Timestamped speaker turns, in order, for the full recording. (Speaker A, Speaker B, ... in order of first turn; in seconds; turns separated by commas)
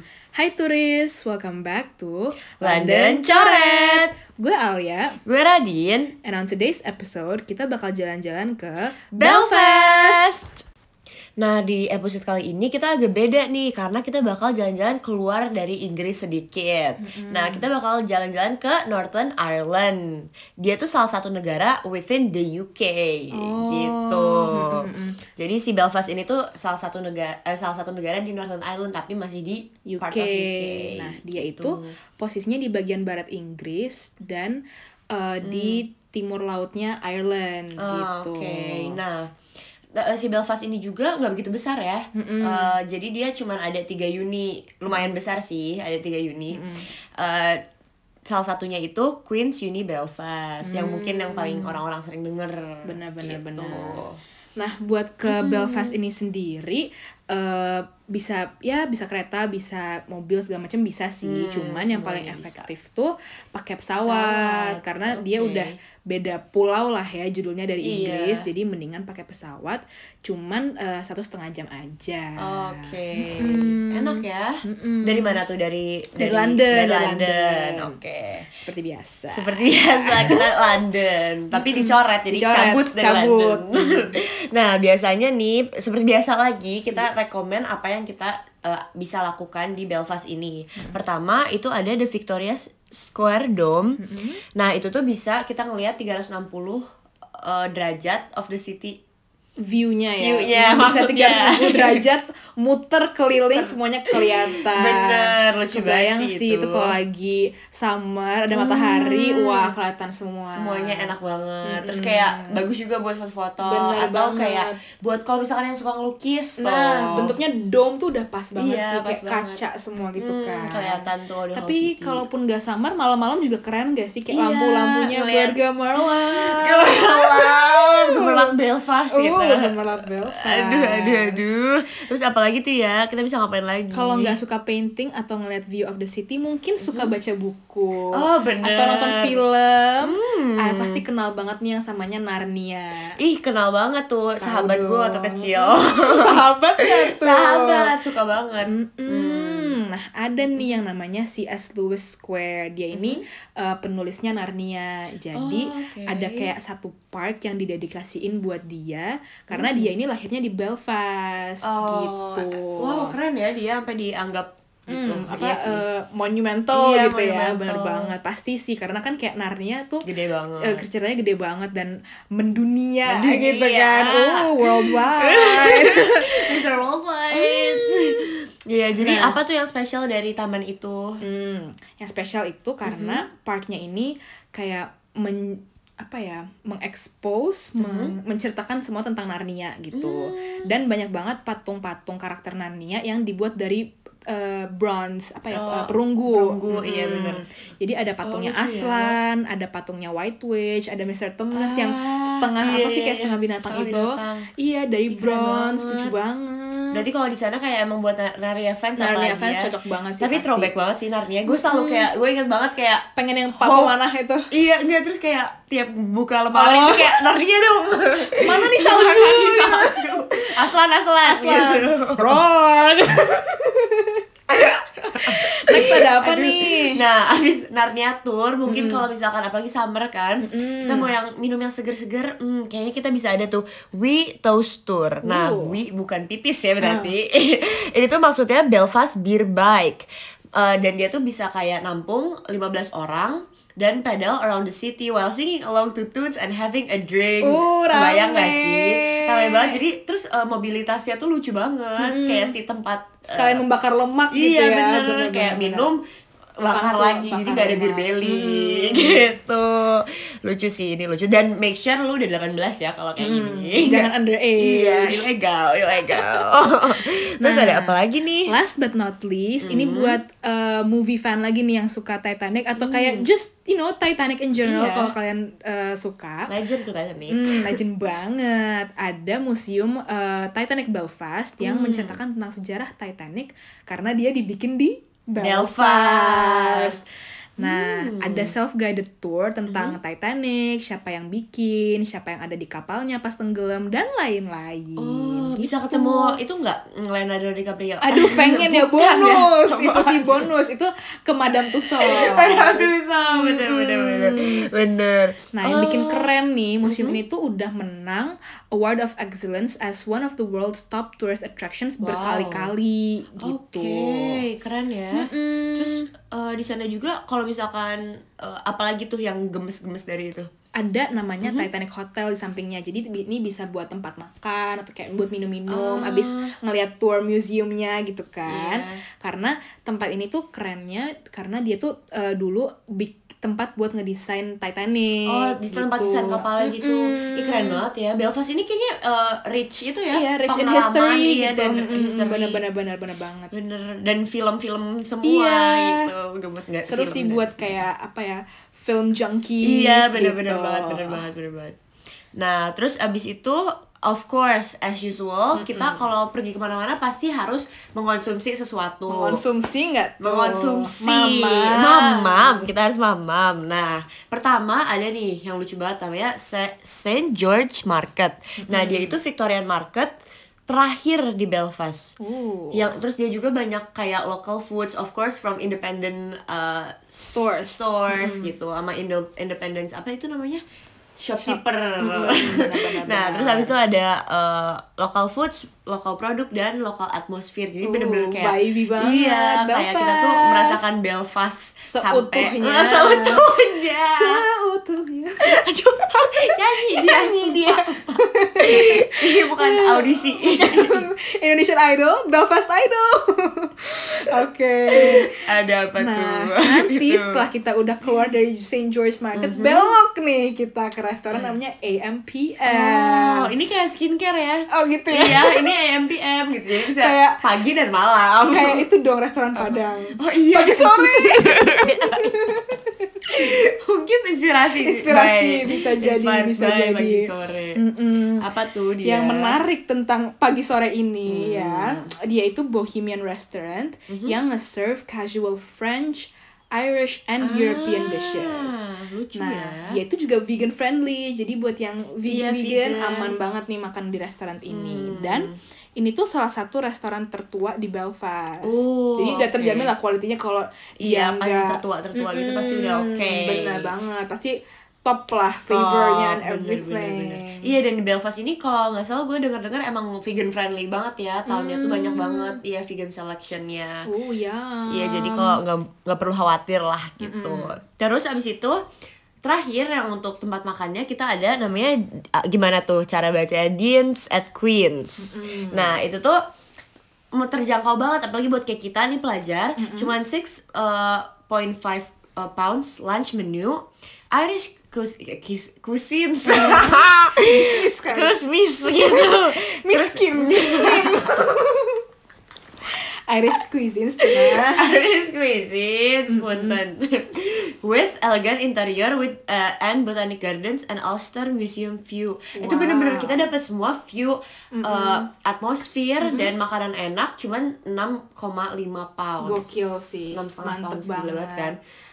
Speaker A: 0.3-5.2, Speaker B: 2.6-4.1, Speaker B: 5.2-6.1, Speaker A: 6.2-10.3, Speaker B: 9.2-10.6, Speaker B: 11.4-31.9, Speaker A: 17.0-17.7, Speaker A: 23.3-25.2, Speaker A: 29.9-39.0, Speaker B: 35.4-35.8, Speaker B: 37.8-39.3, Speaker B: 40.0-47.6, Speaker A: 42.1-42.7, Speaker A: 46.5-46.9, Speaker B: 48.3-54.2, Speaker A: 50.6-51.8, Speaker A: 52.9-54.0, Speaker A: 54.6-75.4, Speaker B: 55.2-56.0, Speaker B: 61.2-62.7, Speaker B: 64.0-65.8, Speaker B: 67.8-68.5, Speaker B: 72.4-78.5, Speaker A: 76.2-80.5, Speaker B: 79.3-94.0, Speaker A: 81.5-84.2, Speaker A: 86.9-87.2, Speaker A: 94.0-94.4, Speaker B: 94.6-96.8, Speaker B: 97.4-99.0, Speaker A: 99.6-112.6, Speaker B: 100.2-102.0, Speaker B: 103.5-107.0, Speaker B: 108.5-109.7, Speaker B: 110.5-117.4, Speaker A: 113.6-114.8, Speaker A: 116.6-128.5, Speaker B: 118.6-119.6, Speaker B: 120.2-122.2, Speaker B: 124.3-129.8, Speaker A: 129.1-131.6, Speaker B: 130.3-134.4, Speaker A: 133.9-143.2, Speaker B: 136.8-137.2, Speaker B: 138.1-139.4, Speaker B: 140.0-141.0, Speaker B: 143.2-149.8, Speaker A: 144.4-147.9, Speaker A: 148.7-163.2, Speaker B: 152.9-153.2, Speaker B: 155.3-156.5, Speaker B: 159.5-159.9, Speaker B: 161.6-165.8, Speaker A: 164.9-170.1, Speaker B: 166.7-168.2, Speaker B: 170.1-170.8, Speaker A: 170.6-176.7, Speaker B: 173.1-181.2, Speaker A: 177.3-178.2, Speaker A: 179.0-179.4, Speaker A: 181.2-207.1, Speaker B: 182.8-183.2, Speaker B: 187.8-188.1, Speaker B: 189.9-190.8, Speaker B: 195.5-197.4, Speaker B: 198.2-199.2, Speaker B: 201.5-204.5, Speaker B: 205.1-206.1, Speaker B: 206.9-213.1, Speaker A: 209.0-210.7, Speaker A: 211.5-212.1, Speaker A: 213.2-214.5, Speaker B: 213.6-213.9, Speaker B: 214.5-222.4, Speaker A: 216.5-217.3, Speaker A: 218.4-220.5, Speaker A: 221.2-224.2, Speaker B: 224.5-253.6, Speaker A: 225.2-227.0, Speaker A: 228.7-229.1, Speaker A: 230.4-231.1, Speaker A: 235.2-235.8, Speaker A: 236.8-237.1, Speaker A: 247.4-249.8, Speaker A: 252.0-252.6, Speaker A: 253.3-255.9, Speaker B: 254.3-256.0, Speaker B: 256.6-268.5, Speaker A: 256.6-259.2, Speaker A: 263.2-265.3, Speaker A: 266.1-266.5, Speaker A: 267.0-276.5, Speaker B: 269.6-270.2, Speaker B: 272.8-273.3, Speaker B: 274.6-275.1, Speaker B: 276.5-277.8, Speaker A: 277.3-287.1, Speaker B: 281.6-282.2, Speaker B: 285.4-287.0, Speaker A: 287.6-296.4, Speaker B: 287.6-288.5, Speaker B: 289.7-290.0, Speaker B: 295.0-300.5, Speaker A: 298.0-304.7, Speaker B: 301.5-306.3, Speaker A: 305.5-314.4, Speaker B: 306.8-307.2, Speaker B: 312.0-312.7, Speaker B: 313.4-320.5, Speaker A: 315.1-316.1, Speaker A: 320.8-337.8, Speaker B: 321.4-321.7, Speaker B: 325.7-326.5, Speaker B: 328.4-329.0, Speaker B: 335.3-342.6, Speaker A: 340.1-343.5, Speaker B: 343.5-347.8, Speaker A: 345.2-346.1, Speaker A: 346.9-351.3, Speaker B: 349.6-351.8, Speaker B: 352.4-359.4, Speaker A: 355.5-356.1, Speaker A: 359.1-362.7, Speaker B: 360.2-370.1, Speaker A: 368.6-369.2, Speaker B: 370.7-372.1, Speaker A: 372.2-372.9, Speaker B: 372.7-380.6, Speaker A: 377.3-378.5, Speaker B: 381.2-394.4, Speaker A: 381.4-383.7, Speaker A: 387.8-390.8, Speaker A: 391.9-393.5, Speaker A: 394.1-395.5, Speaker B: 395.4-398.0, Speaker A: 396.6-405.3, Speaker B: 398.6-401.1, Speaker B: 404.9-407.4, Speaker A: 406.0-413.5, Speaker B: 409.4-409.9, Speaker B: 411.3-411.6, Speaker B: 412.7-418.8, Speaker A: 414.7-415.7, Speaker A: 416.8-417.4, Speaker A: 418.5-423.5, Speaker B: 419.6-422.3, Speaker B: 423.3-427.8, Speaker A: 424.8-428.5, Speaker B: 428.4-429.6, Speaker A: 429.0-438.8, Speaker B: 431.3-432.1, Speaker B: 434.1-434.4, Speaker B: 437.4-440.0, Speaker A: 439.3-457.8, Speaker B: 442.2-443.4, Speaker B: 444.7-445.6, Speaker B: 448.6-449.9, Speaker B: 451.0-453.9, Speaker B: 455.7-464.1, Speaker A: 461.5-462.6, Speaker A: 464.1-465.6, Speaker B: 464.9-468.8, Speaker A: 467.2-467.8, Speaker B: 469.4-476.4, Speaker A: 475.2-476.0, Speaker B: 477.3-491.5, Speaker A: 479.8-480.1, Speaker A: 486.4-492.0, Speaker A: 493.3-494.9, Speaker B: 494.3-511.8, Speaker A: 496.3-496.8, Speaker A: 502.6-503.5, Speaker A: 504.7-505.3, Speaker A: 506.2-506.5, Speaker A: 509.4-511.8